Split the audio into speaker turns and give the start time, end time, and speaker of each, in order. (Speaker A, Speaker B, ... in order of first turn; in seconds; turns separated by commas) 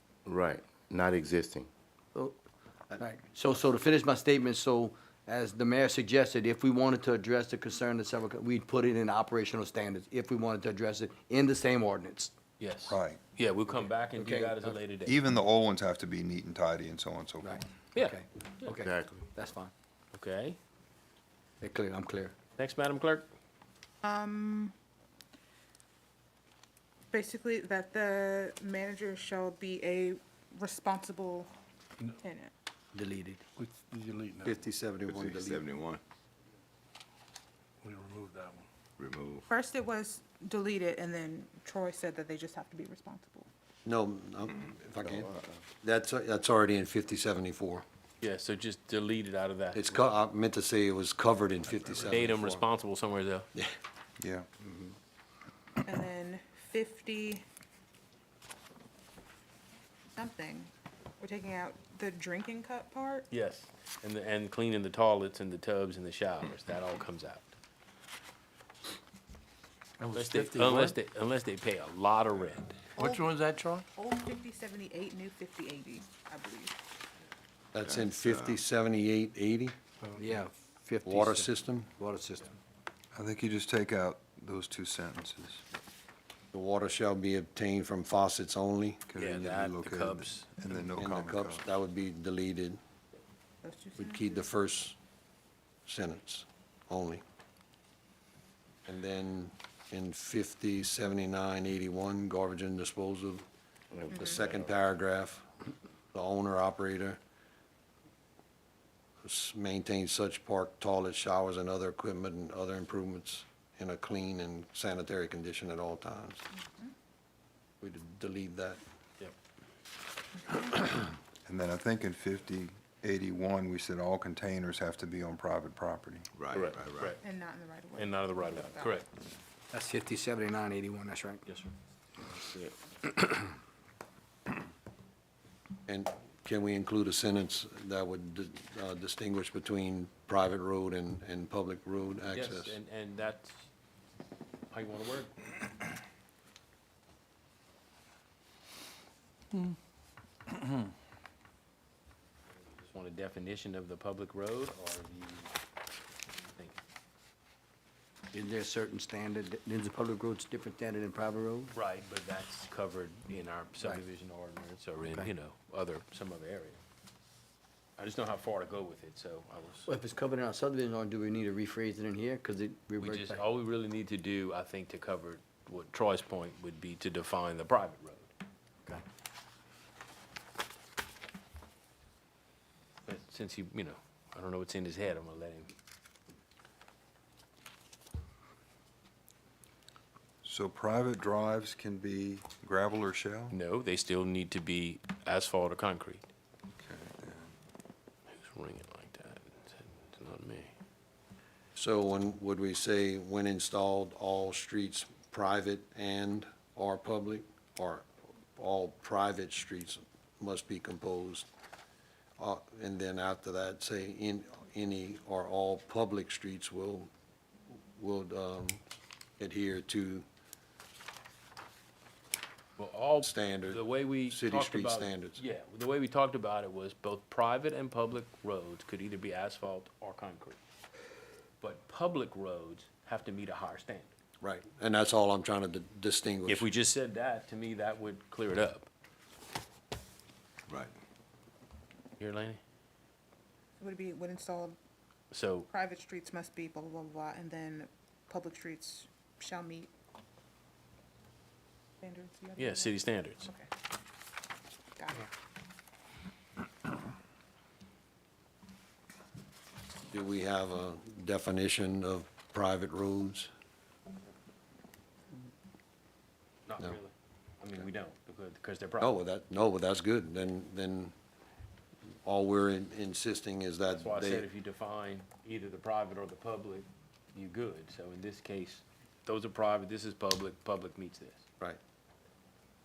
Speaker A: 0.3-1.7, Speaker B: 3.0-12.3, Speaker C: 12.6-15.2, Speaker D: 12.9-13.2, Speaker B: 14.2-14.8, Speaker D: 15.1-17.6, Speaker B: 17.4-19.7, Speaker C: 17.9-18.8, Speaker A: 18.8-19.2, Speaker C: 20.1-20.6, Speaker B: 21.6-22.4, Speaker C: 22.6-23.3, Speaker E: 24.0-24.7, Speaker E: 27.1-31.5, Speaker E: 32.2-32.5, Speaker B: 32.9-33.4, Speaker F: 33.6-34.6, Speaker G: 34.4-35.6, Speaker H: 35.1-36.0, Speaker F: 37.8-38.6, Speaker H: 39.0-39.5, Speaker E: 39.5-43.5, Speaker G: 43.9-47.9, Speaker A: 45.2-45.6, Speaker C: 48.2-49.8, Speaker G: 49.8-52.6, Speaker H: 51.8-52.2, Speaker C: 52.1-53.5, Speaker D: 54.2-54.5, Speaker B: 54.6-54.9, Speaker E: 55.9-57.4, Speaker E: 60.2-63.3, Speaker C: 63.3-67.5, Speaker F: 70.0-71.0, Speaker C: 70.1-72.9, Speaker E: 73.0-73.4, Speaker F: 73.0-73.9, Speaker E: 74.0-76.8, Speaker G: 77.7-79.8, Speaker H: 77.8-78.6, Speaker B: 80.2-82.5, Speaker G: 81.0-81.9, Speaker D: 83.2-85.6, Speaker G: 86.5-89.0, Speaker D: 89.1-91.7, Speaker C: 89.2-90.9, Speaker G: 91.0-92.8, Speaker E: 93.6-94.5, Speaker G: 94.0-95.0, Speaker G: 95.9-97.2, Speaker G: 98.9-103.5, Speaker E: 104.1-104.5, Speaker G: 104.1-105.5, Speaker G: 106.1-107.2, Speaker G: 109.2-116.5, Speaker E: 116.6-116.9, Speaker G: 117.8-118.8, Speaker E: 120.5-120.8, Speaker D: 121.5-126.3, Speaker H: 126.4-127.2, Speaker C: 126.6-127.2, Speaker E: 127.2-129.0, Speaker C: 128.0-129.1, Speaker B: 129.7-131.4, Speaker C: 131.5-131.7, Speaker G: 135.9-142.8, Speaker C: 142.3-143.7, Speaker C: 144.7-145.4, Speaker C: 152.8-155.5, Speaker C: 156.3-156.8, Speaker B: 158.3-161.7, Speaker C: 161.7-166.8, Speaker C: 168.0-169.9, Speaker B: 169.9-173.4, Speaker C: 173.0-178.3, Speaker C: 183.1-185.7, Speaker D: 190.4-193.6, Speaker C: 193.5-196.2, Speaker D: 196.8-197.5, Speaker C: 198.3-200.7, Speaker G: 201.8-211.5, Speaker G: 212.4-217.1, Speaker G: 217.7-218.8, Speaker G: 219.4-220.2, Speaker C: 222.8-230.6, Speaker G: 223.2-225.4, Speaker C: 231.6-234.1, Speaker G: 234.4-236.7, Speaker C: 236.5-238.9, Speaker H: 240.7-240.9, Speaker C: 242.2-242.6, Speaker E: 243.8-244.8, Speaker C: 245.3-245.7, Speaker E: 245.7-249.9, Speaker E: 252.0-253.7, Speaker C: 252.6-253.5, Speaker E: 255.0-255.3, Speaker G: 260.1-263.5, Speaker C: 266.7-269.2, Speaker G: 269.0-271.1, Speaker G: 272.2-274.5, Speaker C: 273.9-281.4